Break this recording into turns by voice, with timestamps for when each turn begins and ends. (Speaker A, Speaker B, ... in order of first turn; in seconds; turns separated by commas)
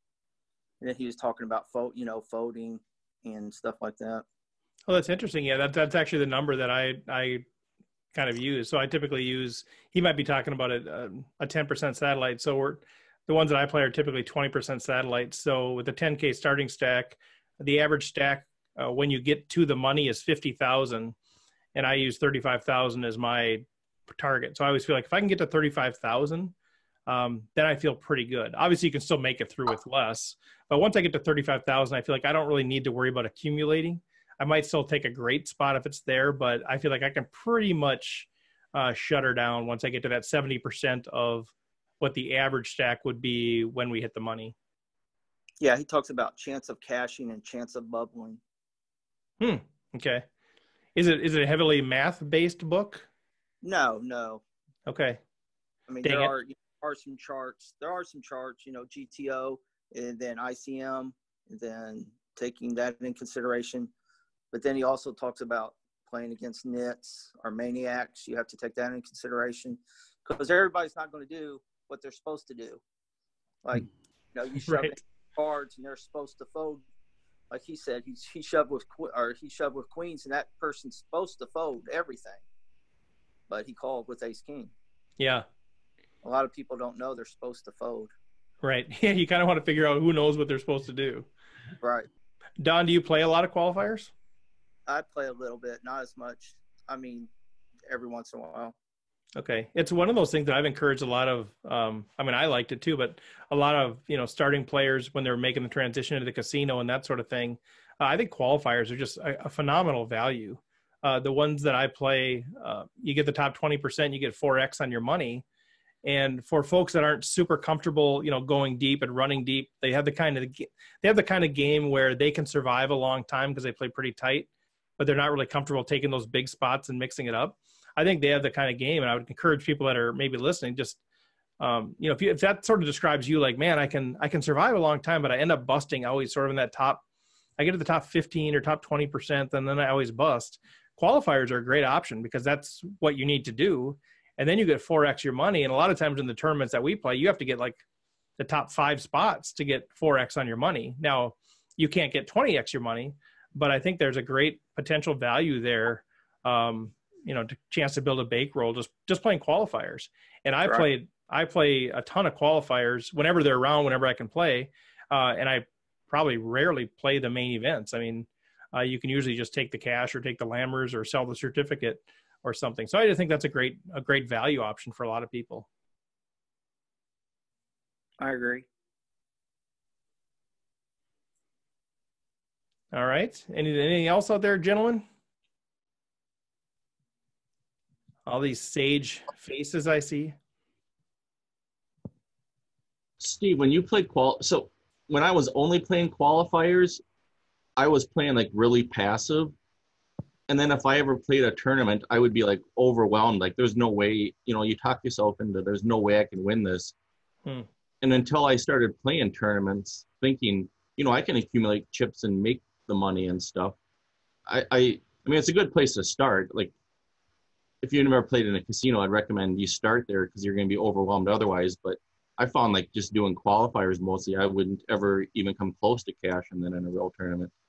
Speaker A: 0.8-4.2, Speaker B: 4.9-7.4, Speaker B: 8.1-21.1, Speaker B: 21.7-26.5, Speaker B: 27.1-44.5, Speaker A: 45.6-48.4, Speaker B: 49.4-50.2, Speaker B: 50.9-53.1, Speaker A: 53.6-54.4, Speaker B: 54.9-55.2, Speaker A: 55.9-63.9, Speaker B: 56.0-56.3, Speaker A: 64.5-72.8, Speaker A: 73.6-76.8, Speaker B: 74.6-75.0, Speaker A: 77.5-82.4, Speaker A: 83.5-84.7, Speaker B: 85.2-85.4, Speaker A: 86.2-88.1, Speaker B: 88.6-91.3, Speaker A: 91.8-92.1, Speaker B: 92.6-94.1, Speaker A: 94.9-97.3, Speaker A: 97.9-98.7, Speaker B: 99.4-115.4, Speaker B: 116.0-131.0, Speaker B: 131.6-137.0, Speaker B: 137.6-147.8, Speaker B: 148.4-175.7, Speaker A: 178.2-178.6, Speaker B: 182.9-185.0, Speaker B: 188.2-190.3, Speaker C: 193.2-197.0, Speaker C: 197.8-199.5, Speaker C: 200.5-206.9, Speaker C: 208.0-213.7, Speaker C: 214.5-216.7, Speaker C: 217.8-227.5